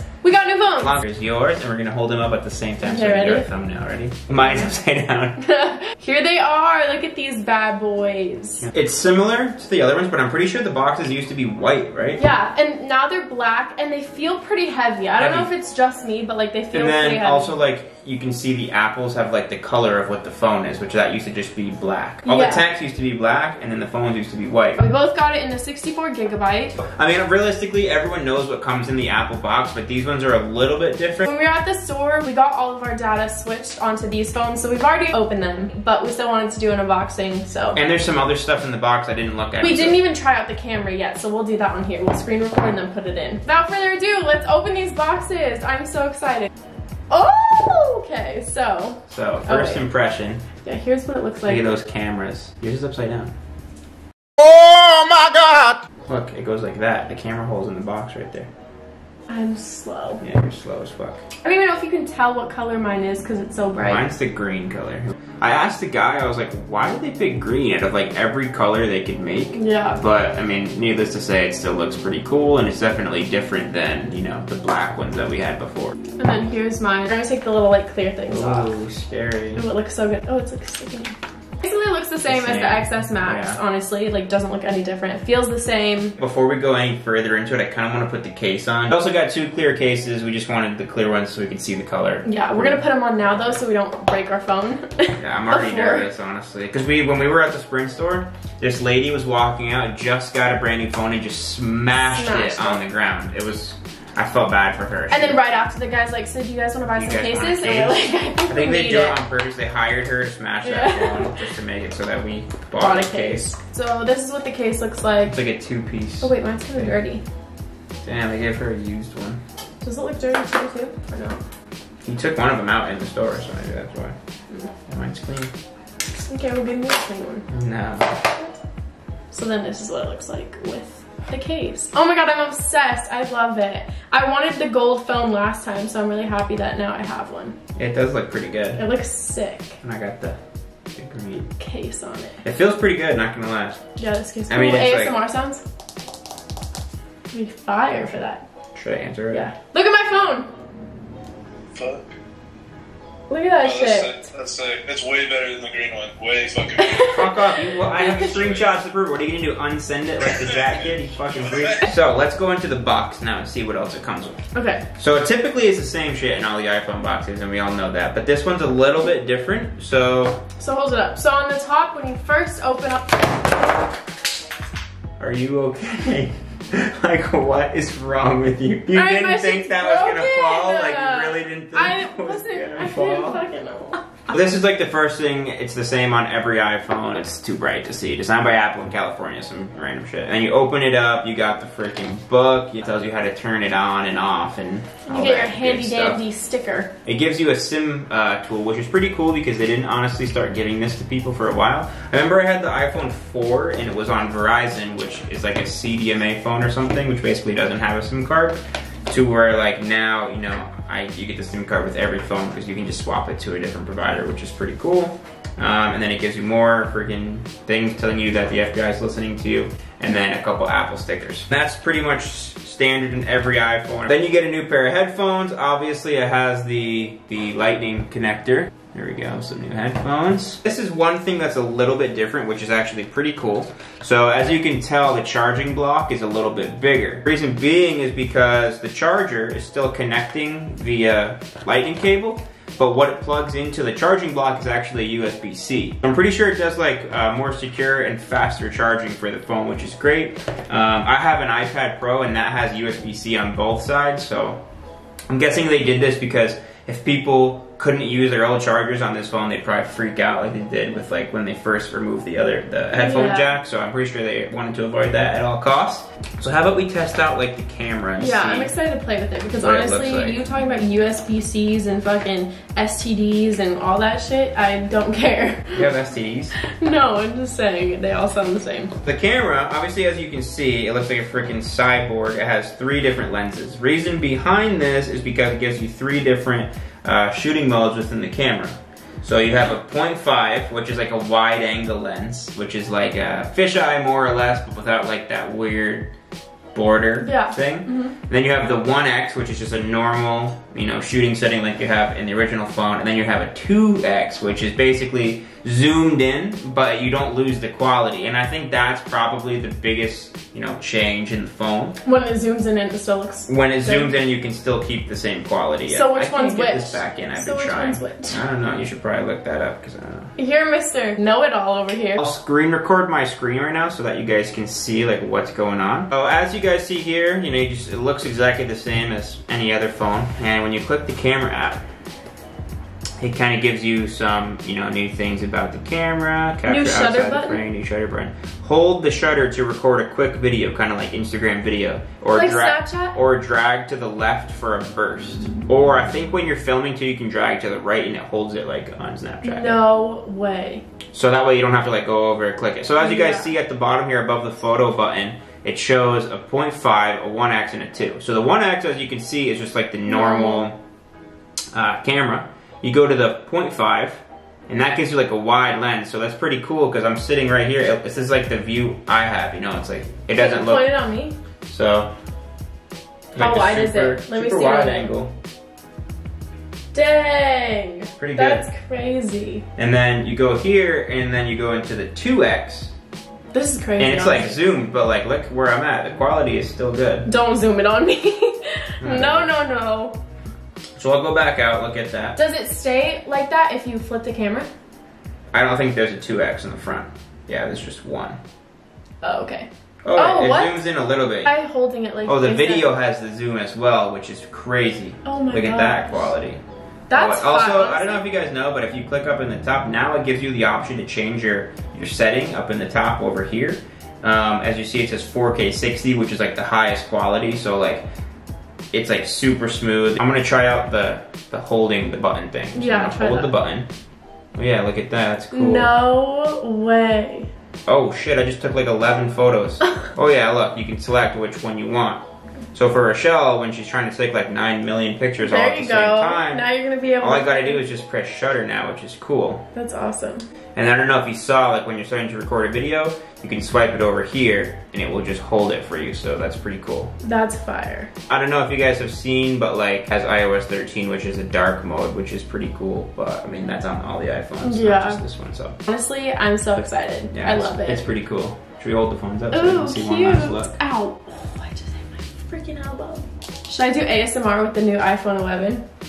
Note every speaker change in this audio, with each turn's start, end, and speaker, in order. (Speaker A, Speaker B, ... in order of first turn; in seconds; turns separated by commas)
Speaker A: 0.2-1.0, Speaker B: 0.8-5.4, Speaker A: 2.8-3.5, Speaker A: 5.4-8.7, Speaker B: 8.6-12.2, Speaker A: 12.2-17.5, Speaker B: 15.2-15.5, Speaker B: 16.7-24.8, Speaker A: 22.2-22.6, Speaker A: 24.8-26.8, Speaker B: 26.8-31.3, Speaker A: 31.2-37.8, Speaker B: 37.7-40.0, Speaker A: 39.6-46.5, Speaker A: 47.1-49.8, Speaker B: 49.1-50.4, Speaker A: 50.6-51.6, Speaker B: 51.5-53.3, Speaker B: 54.4-58.5, Speaker A: 59.3-60.2, Speaker B: 60.2-61.2, Speaker A: 61.4-64.0, Speaker B: 63.8-75.9, Speaker A: 69.5-70.0, Speaker A: 76.2-78.7, Speaker B: 78.3-79.6, Speaker A: 79.5-86.1, Speaker B: 82.3-83.6, Speaker B: 86.2-93.6, Speaker A: 92.2-96.1, Speaker B: 95.2-105.4, Speaker A: 102.0-102.8, Speaker A: 105.1-109.2, Speaker B: 106.9-113.5, Speaker A: 110.6-111.4, Speaker A: 112.8-115.4, Speaker B: 115.3-117.0, Speaker A: 116.2-117.2, Speaker B: 118.0-119.4, Speaker A: 119.8-121.4, Speaker B: 122.0-124.2, Speaker B: 124.9-125.5, Speaker A: 126.3-127.4, Speaker B: 127.5-128.2, Speaker A: 129.3-137.6, Speaker B: 137.8-138.8, Speaker A: 138.8-139.8, Speaker B: 139.8-140.4, Speaker B: 140.9-141.5, Speaker A: 141.6-142.4, Speaker B: 142.4-143.8, Speaker A: 144.0-145.6, Speaker B: 144.5-145.2, Speaker A: 147.3-148.4, Speaker B: 148.8-149.5, Speaker A: 149.3-150.5, Speaker C: 151.7-152.0, Speaker A: 153.3-154.2, Speaker C: 153.6-157.2, Speaker A: 156.8-157.4, Speaker B: 157.1-164.4, Speaker C: 157.9-158.7, Speaker A: 164.5-164.8, Speaker B: 165.0-170.4, Speaker A: 170.6-173.3, Speaker B: 175.2-183.4, Speaker A: 178.9-184.0, Speaker B: 184.3-196.2, Speaker A: 195.1-196.9, Speaker B: 197.1-254.6, Speaker B: 255.3-268.7, Speaker A: 262.9-263.5, Speaker A: 268.2-275.8, Speaker B: 269.6-270.4, Speaker B: 275.7-276.5, Speaker A: 276.6-278.9, Speaker B: 279.0-296.1, Speaker B: 296.7-312.0, Speaker A: 297.2-298.1, Speaker A: 312.0-314.1, Speaker B: 313.5-320.3, Speaker A: 315.9-318.4, Speaker A: 320.4-322.2, Speaker B: 322.2-331.8, Speaker B: 333.2-349.8, Speaker A: 336.6-337.6, Speaker A: 342.3-343.1, Speaker A: 349.4-350.8, Speaker B: 351.1-360.8, Speaker A: 353.0-353.5, Speaker A: 360.1-360.7, Speaker B: 361.7-370.9, Speaker A: 370.3-371.4, Speaker B: 371.7-372.1, Speaker B: 373.3-375.3, Speaker A: 373.4-375.1, Speaker A: 376.9-379.6, Speaker B: 378.2-378.6, Speaker B: 379.8-382.9, Speaker A: 383.5-384.7, Speaker B: 384.0-387.3, Speaker A: 387.2-390.2, Speaker B: 389.0-389.5, Speaker B: 391.0-392.4, Speaker A: 392.4-394.7, Speaker B: 395.5-398.4, Speaker A: 399.2-400.9, Speaker B: 400.0-401.5, Speaker A: 401.4-402.9, Speaker B: 402.2-406.6, Speaker A: 405.2-406.3, Speaker A: 407.1-408.2, Speaker B: 407.1-418.1, Speaker B: 418.9-423.9, Speaker A: 422.7-423.5, Speaker B: 424.5-425.9, Speaker A: 425.5-427.5, Speaker B: 427.9-432.2, Speaker B: 432.7-436.6, Speaker A: 435.4-437.8, Speaker B: 437.2-439.6, Speaker A: 439.7-440.5, Speaker B: 440.8-447.1, Speaker A: 447.2-448.1, Speaker B: 448.3-455.8, Speaker A: 454.6-455.2, Speaker A: 455.9-458.0, Speaker B: 457.3-460.8, Speaker A: 459.5-465.8